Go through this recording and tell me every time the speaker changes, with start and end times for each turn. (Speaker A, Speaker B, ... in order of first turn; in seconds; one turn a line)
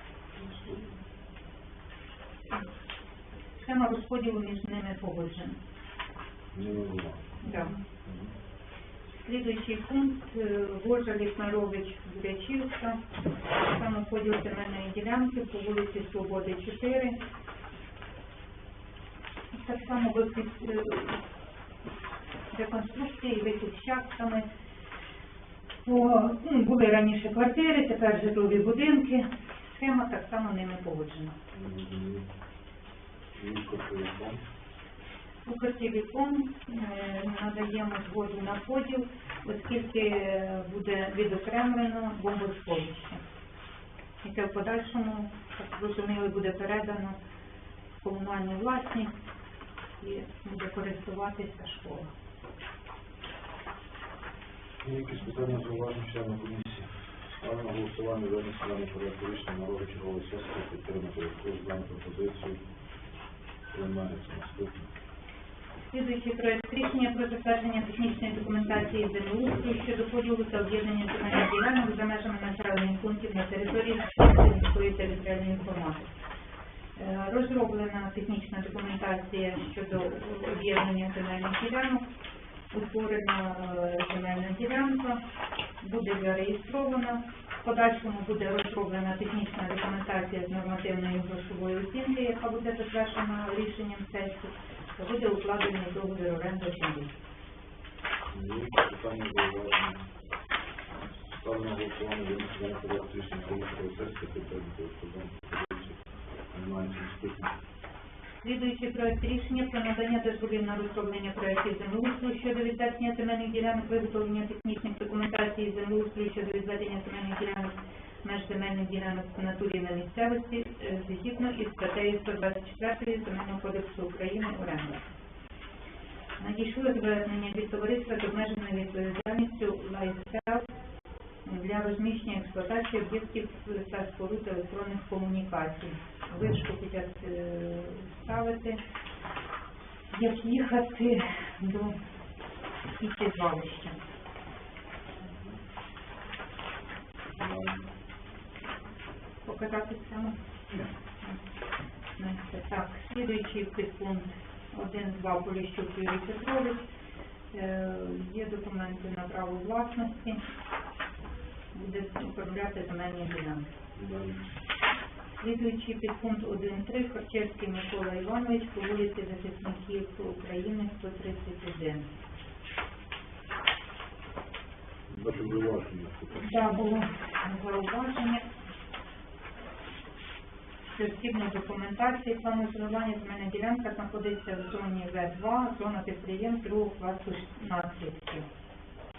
Speaker A: 0.3-1.0
Speaker B: 3.6-5.6
Speaker A: 6.5-8.3
Speaker B: 7.4-7.8
Speaker B: 9.2-13.0
Speaker B: 13.6-17.2
Speaker B: 19.5-21.2
Speaker B: 22.5-24.5
Speaker B: 25.8-31.4
Speaker A: 31.5-32.3
Speaker A: 33.4-34.4
Speaker B: 35.5-43.2
Speaker B: 44.2-47.2
Speaker B: 48.0-49.1
Speaker B: 50.0-52.1
Speaker A: 54.8-62.6
Speaker A: 63.7-64.9
Speaker B: 65.9-76.1
Speaker B: 77.0-82.0
Speaker B: 82.7-85.2
Speaker B: 85.8-97.1
Speaker A: 98.3-100.0
Speaker A: 101.2-107.5
Speaker B: 108.4-125.1
Speaker B: 126.4-130.7
Speaker B: 131.4-138.8
Speaker B: 140.1-142.0
Speaker B: 143.0-144.0
Speaker A: 145.2-145.6
Speaker A: 147.3-147.8
Speaker B: 149.5-150.4
Speaker B: 152.2-156.8
Speaker B: 157.5-160.4
Speaker B: 161.7-163.7
Speaker A: 164.0-164.4
Speaker B: 165.4-172.1
Speaker A: 175.1-176.7
Speaker B: 176.4-178.4
Speaker B: 180.9-188.5